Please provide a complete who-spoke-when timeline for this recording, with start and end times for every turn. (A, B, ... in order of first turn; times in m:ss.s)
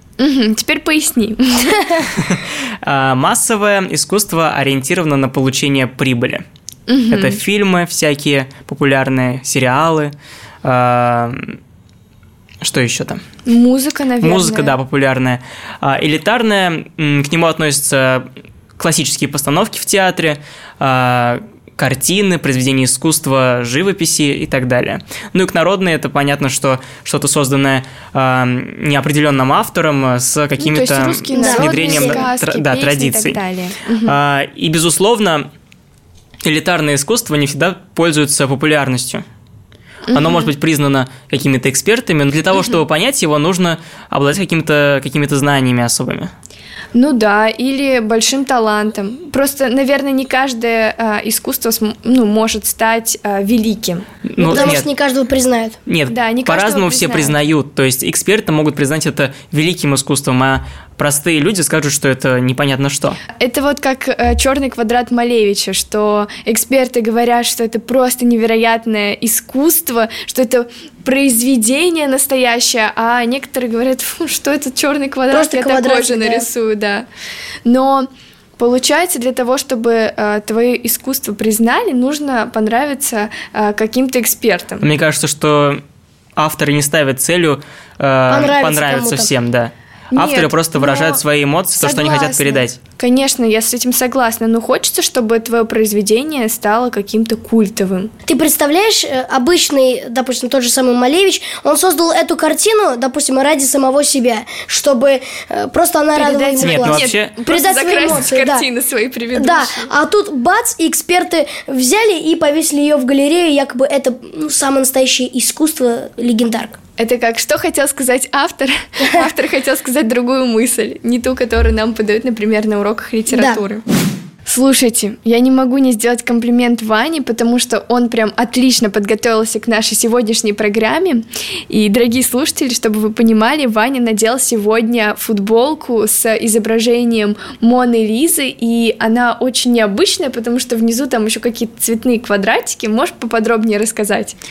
0:00.2-0:02.1 A
0:02.2-0:06.4 B
0:06.9-0:07.4 A
0:07.1-0:10.1 B
0:10.6-0:11.6 B
0:12.6-0:13.2 B
0:13.5-0:14.7 A
0:14.2-0:18.3 B
0:18.8-0:33.4 B
0:30.6-0:34.1 A
0:31.4-0:32.2 C
0:34.1-0:35.5 B
0:36.4-0:39.2 B
0:40.1-0:40.5 A
0:40.1-0:46.3 B
0:46.9-0:54.8 A
0:54.3-0:54.9 B
0:54.4-0:55.8 C
0:55.9-1:03.2 B
0:56.1-0:57.4 A
1:03.4-1:17.1 A
1:15.3-1:16.5 C
1:17.6-1:24.8 A
1:24.8-1:25.8 B
1:26.4-1:32.8 B
1:28.3-1:29.3 C
1:30.1-1:31.2 A
1:31.8-1:38.1 A
1:38.3-1:48.7 C
1:46.1-1:49.9 A
1:46.6-1:47.3 B
1:49.4-1:56.8 C
1:57.0-2:03.8 A
2:03.3-2:03.6 C
2:04.5-2:24.4 A